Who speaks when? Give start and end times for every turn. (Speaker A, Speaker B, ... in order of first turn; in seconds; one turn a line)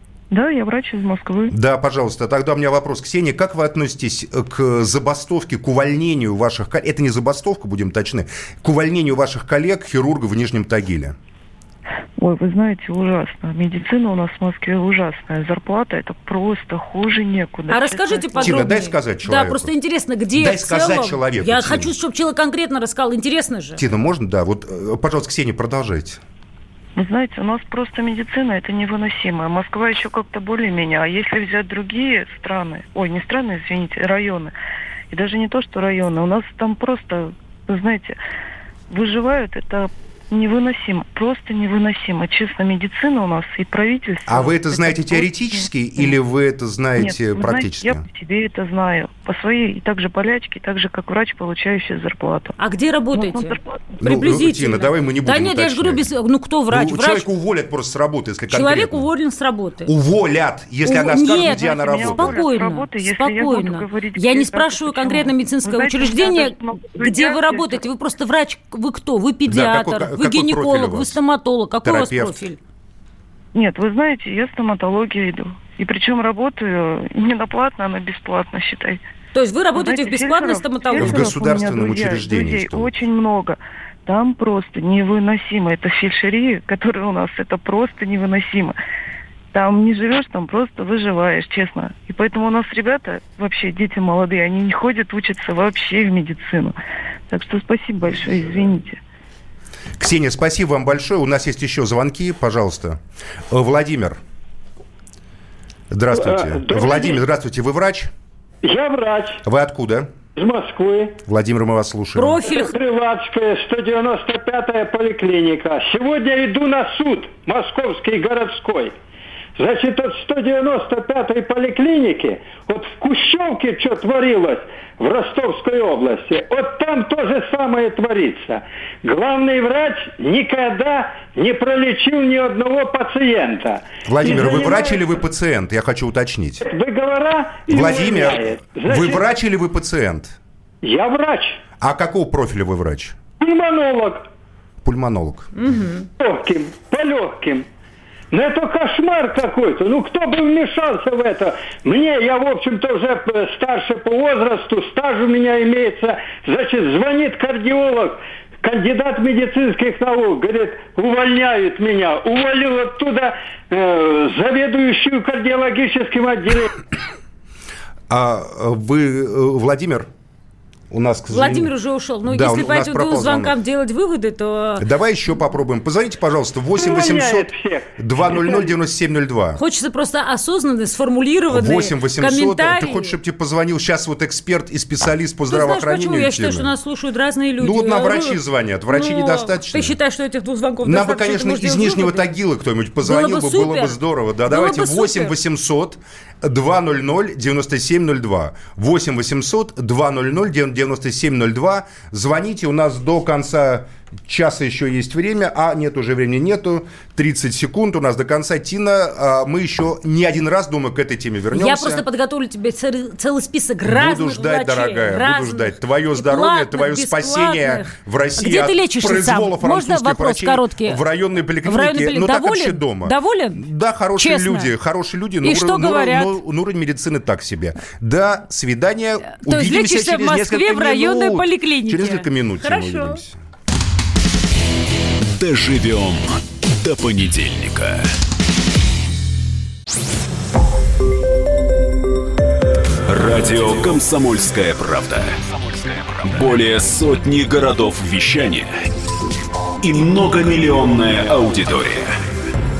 Speaker A: 0.3-1.5
Speaker B: 1.5-11.2
Speaker A: 12.2-18.7
Speaker C: 17.7-23.8
Speaker B: 18.4-19.7
Speaker B: 20.3-21.9
Speaker B: 23.8-26.2
Speaker A: 26.9-34.5
Speaker A: 35.1-38.2
Speaker A: 38.9-46.2
Speaker B: 44.3-48.0
Speaker A: 47.0-52.5
Speaker C: 52.6-57.3
Speaker A: 53.1-53.8
Speaker B: 54.0-56.1
Speaker B: 56.7-59.1
Speaker C: 58.5-59.9
Speaker B: 59.9-62.4
Speaker C: 60.8-72.6
Speaker A: 60.9-67.8
Speaker B: 69.5-71.2
Speaker B: 71.8-72.4
Speaker A: 73.5-79.0
Speaker C: 79.3-81.4
Speaker A: 79.7-88.8
Speaker B: 81.0-83.0
Speaker A: 89.5-96.8
Speaker A: 97.3-99.0
Speaker B: 100.0-104.2
Speaker B: 105.9-108.1
Speaker D: 106.1-107.2
Speaker D: 108.6-109.4
Speaker B: 109.4-110.1
Speaker D: 110.3-111.2
Speaker B: 111.2-112.5
Speaker C: 112.1-112.7
Speaker D: 112.5-118.9
Speaker D: 119.5-135.1
Speaker B: 134.0-136.7
Speaker D: 136.6-139.2
Speaker B: 137.7-140.4
Speaker D: 140.8-141.6
Speaker B: 141.8-143.2
Speaker D: 143.4-144.2
Speaker B: 144.8-145.5
Speaker C: 145.5-146.1
Speaker D: 146.2-147.7
Speaker D: 148.3-166.7
Speaker B: 168.1-170.1
Speaker B: 170.9-171.7
Speaker C: 171.3-174.8
Speaker B: 172.2-173.6
Speaker B: 174.8-179.6
Speaker D: 176.8-178.7
Speaker C: 179.6-183.2
Speaker B: 181.5-186.7
Speaker C: 185.5-192.3
Speaker B: 187.6-190.0
Speaker B: 190.8-212.1
Speaker C: 193.0-194.0
Speaker C: 194.5-195.3
Speaker C: 211.5-221.0
Speaker B: 213.8-233.4
Speaker C: 221.6-223.7
Speaker C: 224.2-224.7
Speaker C: 225.4-226.3
Speaker C: 229.3-233.2
Speaker E: 235.3-238.1
Speaker E: 243.1-248.7
Speaker E: 249.8-252.2